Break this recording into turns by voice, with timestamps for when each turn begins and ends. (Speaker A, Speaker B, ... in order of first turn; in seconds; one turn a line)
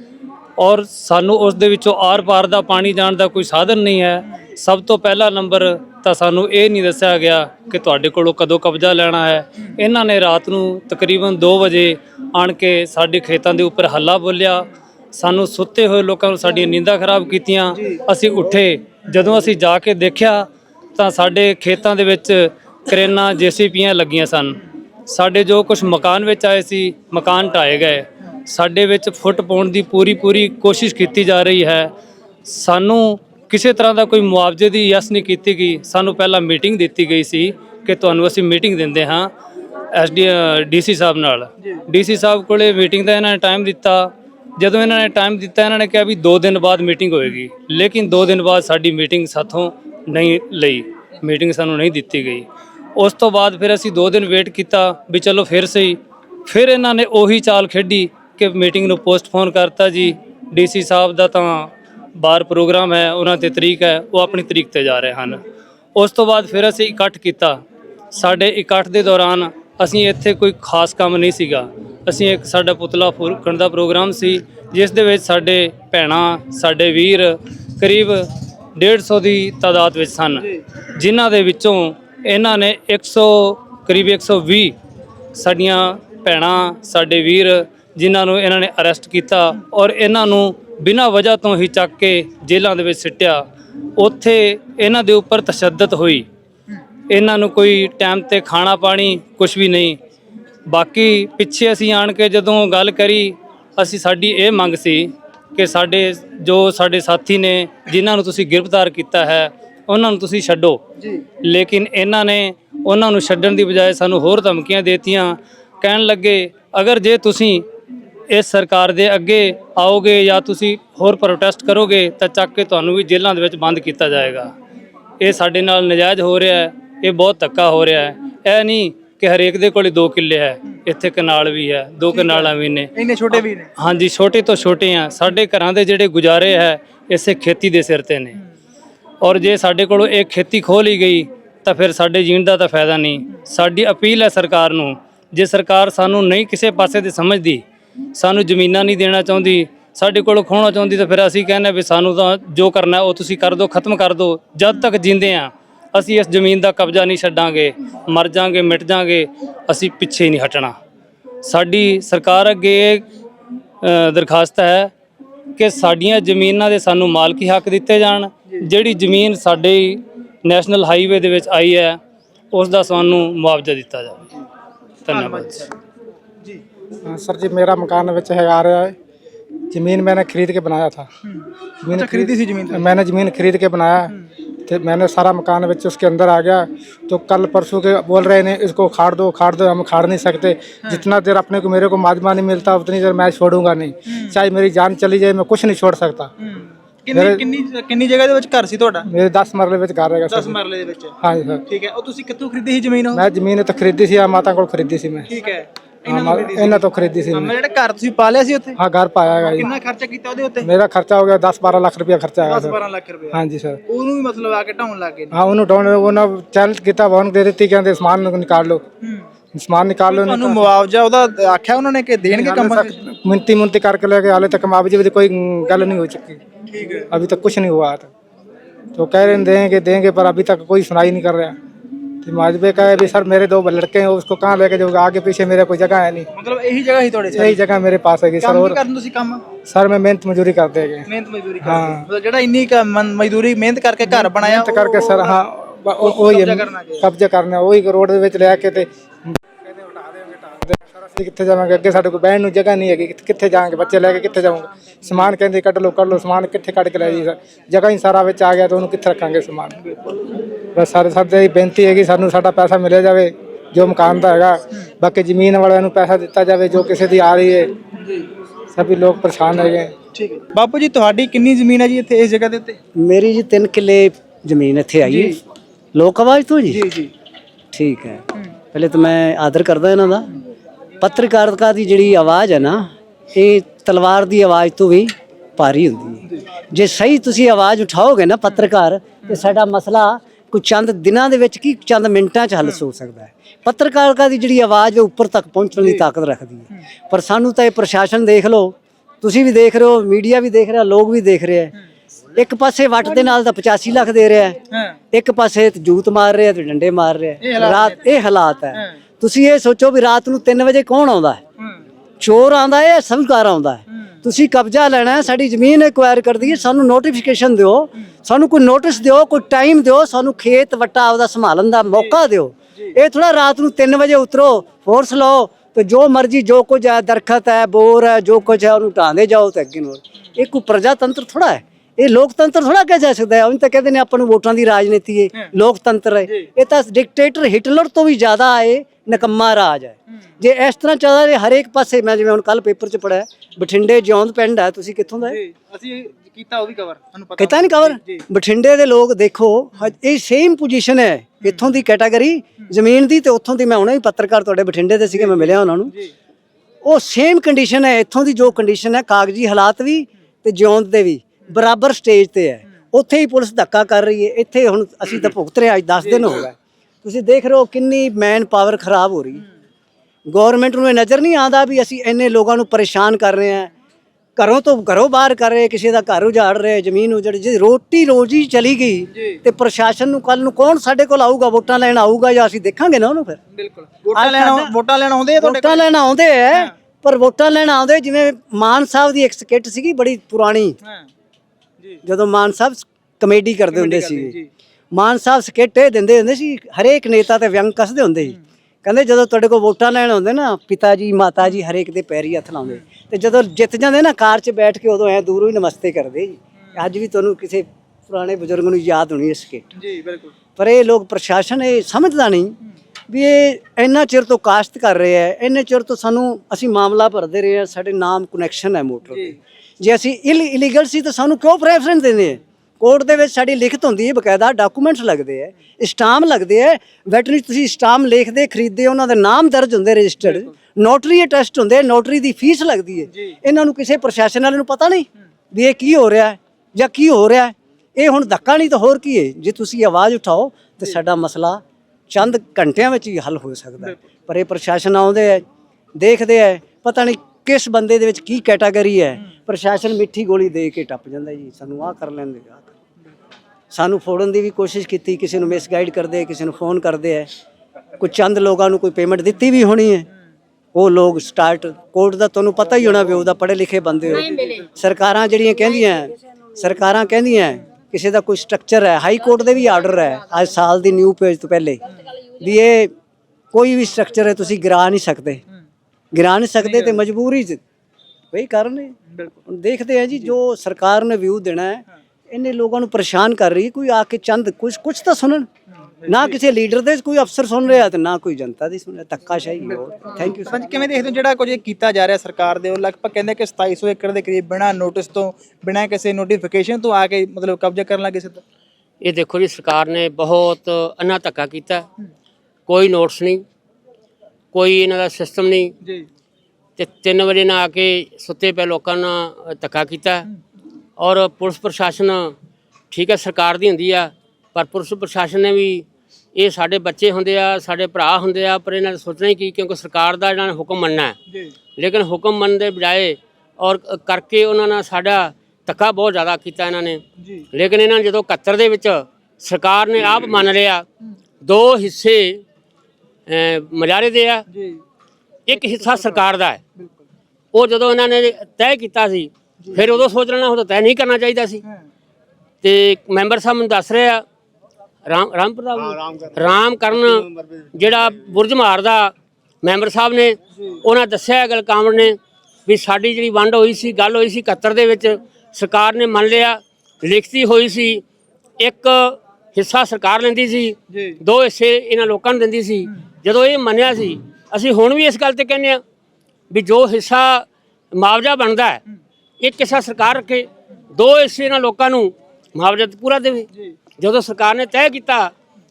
Speaker A: 0.6-31.9
Speaker A: 32.5-39.3
Speaker A: 39.9-52.5
Speaker A: 53.0-65.4
Speaker A: 65.9-84.7
Speaker A: 85.3-93.4
Speaker A: 94.0-96.2
Speaker A: 97.1-100.0
Speaker A: 100.7-110.8
Speaker A: 111.4-117.6
Speaker A: 118.3-124.5
Speaker A: 125.2-138.4
Speaker B: 132.1-133.7
Speaker A: 139.2-147.6
Speaker A: 148.2-160.7
Speaker A: 161.4-163.1
Speaker A: 163.8-164.9
Speaker A: 165.6-172.0
Speaker A: 172.5-174.2
Speaker A: 175.1-175.7
Speaker B: 175.1-175.7
Speaker C: 177.0-178.9
Speaker C: 179.7-181.1
Speaker B: 181.2-182.9
Speaker C: 181.8-184.1
Speaker C: 184.7-196.3
Speaker B: 194.1-194.4
Speaker B: 196.4-199.1
Speaker C: 197.1-197.4
Speaker C: 199.1-200.6
Speaker B: 200.3-201.1
Speaker C: 201.2-201.6
Speaker B: 201.7-203.2
Speaker C: 203.1-205.3
Speaker B: 205.3-208.8
Speaker C: 206.1-207.5
Speaker C: 208.8-209.7
Speaker B: 209.5-210.7
Speaker C: 210.6-212.8
Speaker B: 212.4-215.3
Speaker C: 213.3-213.8
Speaker C: 215.3-218.8
Speaker C: 219.5-220.7
Speaker B: 220.1-223.0
Speaker C: 222.2-226.4
Speaker B: 226.7-227.1
Speaker C: 227.1-228.1
Speaker C: 228.9-231.5
Speaker C: 232.2-236.3
Speaker B: 236.4-237.6
Speaker C: 237.3-238.8
Speaker B: 238.4-239.4
Speaker C: 239.6-241.1
Speaker B: 241.1-245.4
Speaker C: 241.6-242.0
Speaker C: 244.1-259.8
Speaker B: 246.0-247.1
Speaker C: 260.7-267.7
Speaker C: 268.7-269.9
Speaker B: 270.1-272.8
Speaker D: 272.9-275.4
Speaker B: 275.0-275.4
Speaker D: 275.9-276.9
Speaker B: 276.7-277.1
Speaker D: 277.7-280.3
Speaker D: 281.0-301.7
Speaker B: 295.8-296.0
Speaker D: 302.4-304.6
Speaker B: 304.7-305.0
Speaker D: 305.1-311.4
Speaker B: 307.4-308.0
Speaker D: 312.2-345.4
Speaker B: 345.2-348.2
Speaker D: 347.4-355.9
Speaker B: 355.1-356.1
Speaker D: 356.8-369.4
Speaker B: 366.0-366.4
Speaker D: 370.3-373.7
Speaker D: 374.4-383.4
Speaker B: 383.5-385.9
Speaker D: 384.1-384.7
Speaker D: 385.4-390.8
Speaker D: 392.0-394.4
Speaker B: 393.7-394.5
Speaker D: 394.9-409.7
Speaker B: 409.8-410.3
Speaker D: 410.6-412.6
Speaker D: 413.1-445.4
Speaker D: 445.9-452.8
Speaker D: 453.7-457.3
Speaker D: 458.0-460.1
Speaker D: 460.7-471.8
Speaker D: 472.4-472.9
Speaker D: 473.5-475.4
Speaker D: 476.1-477.6
Speaker B: 476.6-477.0
Speaker D: 478.3-485.5
Speaker B: 486.0-486.4
Speaker D: 486.1-490.7
Speaker B: 490.2-498.4
Speaker E: 499.0-501.9
Speaker E: 502.7-503.4
Speaker E: 504.5-505.7
Speaker E: 506.8-510.2
Speaker E: 511.0-512.3
Speaker E: 512.9-521.1
Speaker E: 521.8-527.0
Speaker E: 527.5-530.8
Speaker E: 531.4-532.4
Speaker E: 533.3-534.4
Speaker B: 534.5-534.8
Speaker E: 535.5-536.6
Speaker B: 535.6-536.2
Speaker E: 537.5-541.6
Speaker E: 542.6-544.2
Speaker E: 545.1-549.1
Speaker E: 549.6-558.0
Speaker E: 558.6-565.8
Speaker B: 560.9-561.2
Speaker E: 566.5-567.5
Speaker E: 568.0-568.8
Speaker E: 569.4-573.5
Speaker E: 574.0-575.3